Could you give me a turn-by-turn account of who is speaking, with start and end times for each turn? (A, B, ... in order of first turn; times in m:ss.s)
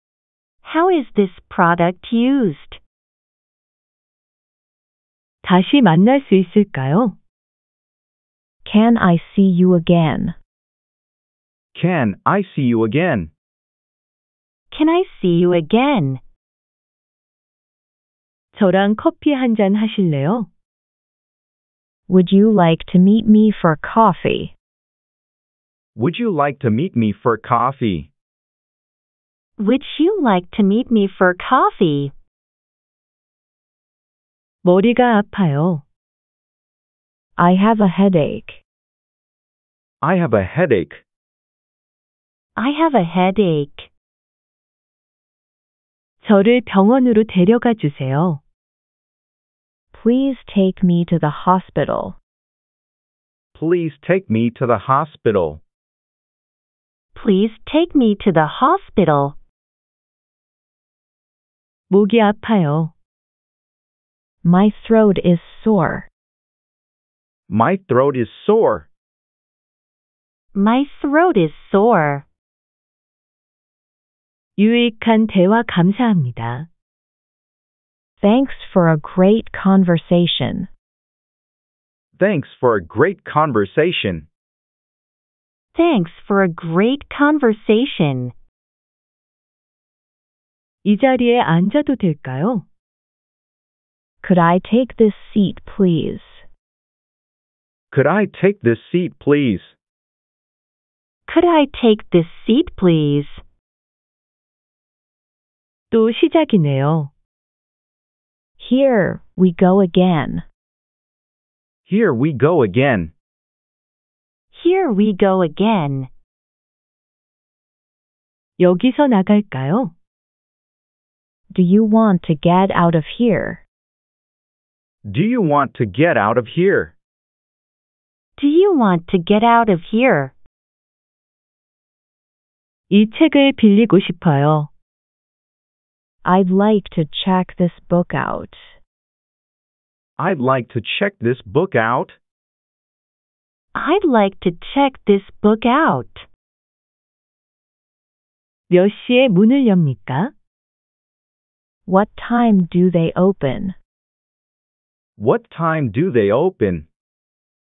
0:00.6-0:02.8 A
0:05.4-0:07.2 B
0:08.6-0:10.4 C
0:11.8-0:13.3 D
0:14.7-0:16.2 A
0:18.5-0:20.5 B
0:22.1-0:24.5 C
0:25.9-0:28.1 D
0:29.6-0:32.1 A
0:34.6-0:35.8 B
0:37.4-0:38.6 C
0:40.0-0:41.0 D
0:42.6-0:43.9 A
0:46.2-0:48.4 B
0:49.9-0:52.2 C
0:53.6-0:55.6 D
0:57.2-0:59.4 A
1:01.9-1:02.9 B
1:04.4-1:06.1 C
1:07.5-1:08.9 D
1:10.5-1:12.3 A
1:14.6-1:16.7 B
1:18.2-1:20.7 C
1:22.2-1:24.3 D
1:25.8-1:28.3 A
1:30.8-1:32.6 B
1:34.2-1:36.4 C
1:37.9-1:39.8 D
1:41.3-1:43.4 A
1:45.9-1:47.1 B
1:48.6-1:50.4 C
1:51.8-1:53.1 D
1:54.5-1:56.1 A
1:58.6-1:59.9 B
2:01.5-2:03.6 C
2:05.0-2:06.9 D
2:08.4-2:10.3 A
2:12.9-2:14.7 B
2:16.2-2:18.8 C
2:20.2-2:22.2 D
2:23.8-2:26.3 A
2:28.7-2:30.3 B
2:31.8-2:33.8 C
2:35.2-2:36.9 D